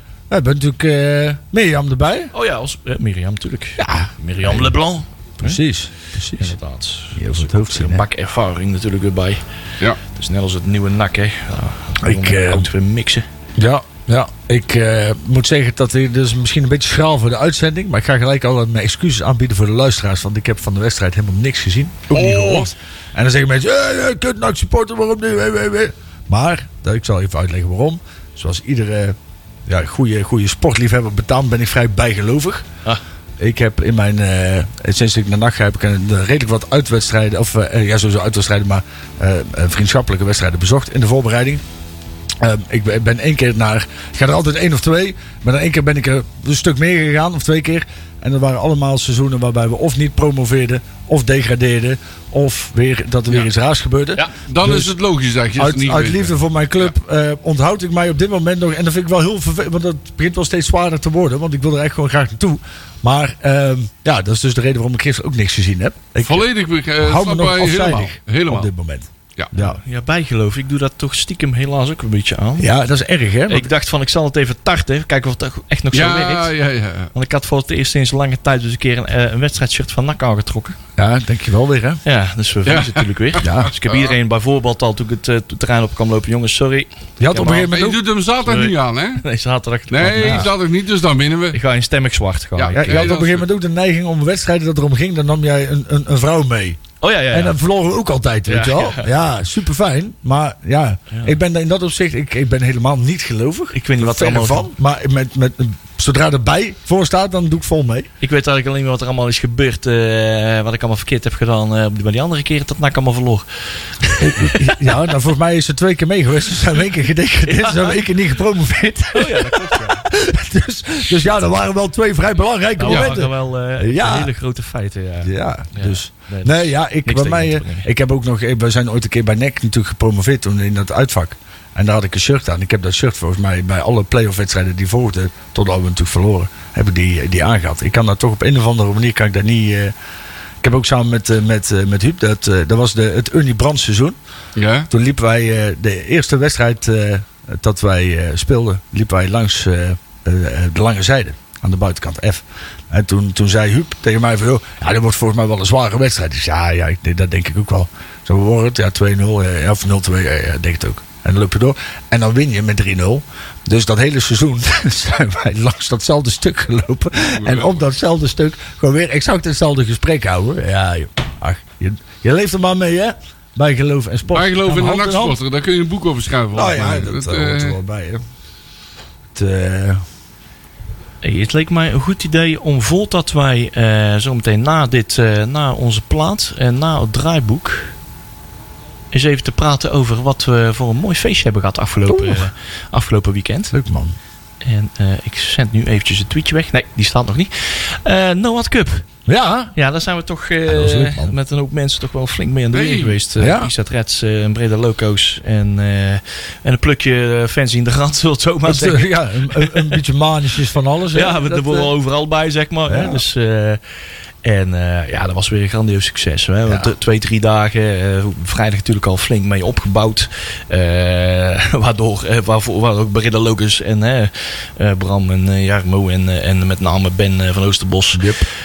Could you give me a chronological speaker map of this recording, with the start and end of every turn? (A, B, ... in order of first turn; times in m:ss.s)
0:00.3-0:02.3 A
0:02.3-0:05.6 B
0:03.8-0:04.7 A
0:05.4-0:06.6 A
0:06.3-0:09.4 B
0:07.1-0:08.0 A
0:10.0-0:13.3 B
0:12.0-0:12.7 A
0:13.6-0:32.7 A
0:22.1-0:22.7 C
0:33.4-0:41.6 A
0:42.4-0:55.0 A
0:54.3-0:56.3 C
0:55.6-1:06.5 A
1:06.2-1:08.7 C
1:07.0-1:09.8 A
1:09.5-1:12.7 B
1:12.6-1:13.7 A
1:13.5-1:16.5 B
1:15.9-1:17.1 C
1:17.1-1:20.8 B
1:21.0-1:22.0 A
1:22.0-1:27.7 B
1:22.6-1:24.1 C
1:23.4-1:23.7 A
1:27.2-1:28.0 A
1:27.7-1:29.2 C
1:28.4-1:30.5 B
1:29.9-1:31.6 C
1:30.2-1:30.5 A
1:31.5-1:33.1 B
1:32.6-1:33.5 C
1:32.7-1:48.1 A
1:37.0-1:37.6 B
1:38.5-1:39.1 B
1:43.7-1:44.7 B
1:48.2-1:54.8 B
1:54.2-2:04.3 A
1:57.4-1:58.0 B
1:59.1-2:00.0 B
2:02.8-2:07.9 B
2:02.9-2:03.2 C
2:05.2-2:19.9 A
2:20.6-2:24.2 A
2:24.6-2:24.9 C
2:24.9-2:55.4 A
2:47.3-2:47.8 C
2:54.3-2:57.8 C
2:56.5-2:58.2 A
2:59.3-3:00.0 A
3:01.2-3:07.9 B
3:09.1-3:13.7 B
3:12.1-3:12.4 A
3:13.7-3:14.2 A
3:14.6-3:19.1 B
3:19.2-3:19.7 A
3:19.7-3:29.9 B
3:20.7-3:21.3 A
3:22.7-3:23.2 C
3:23.4-3:23.7 A
3:28.6-3:31.9 A
3:31.1-3:33.8 B
3:32.9-3:33.2 A
3:34.4-3:48.2 B
3:48.1-3:48.5 A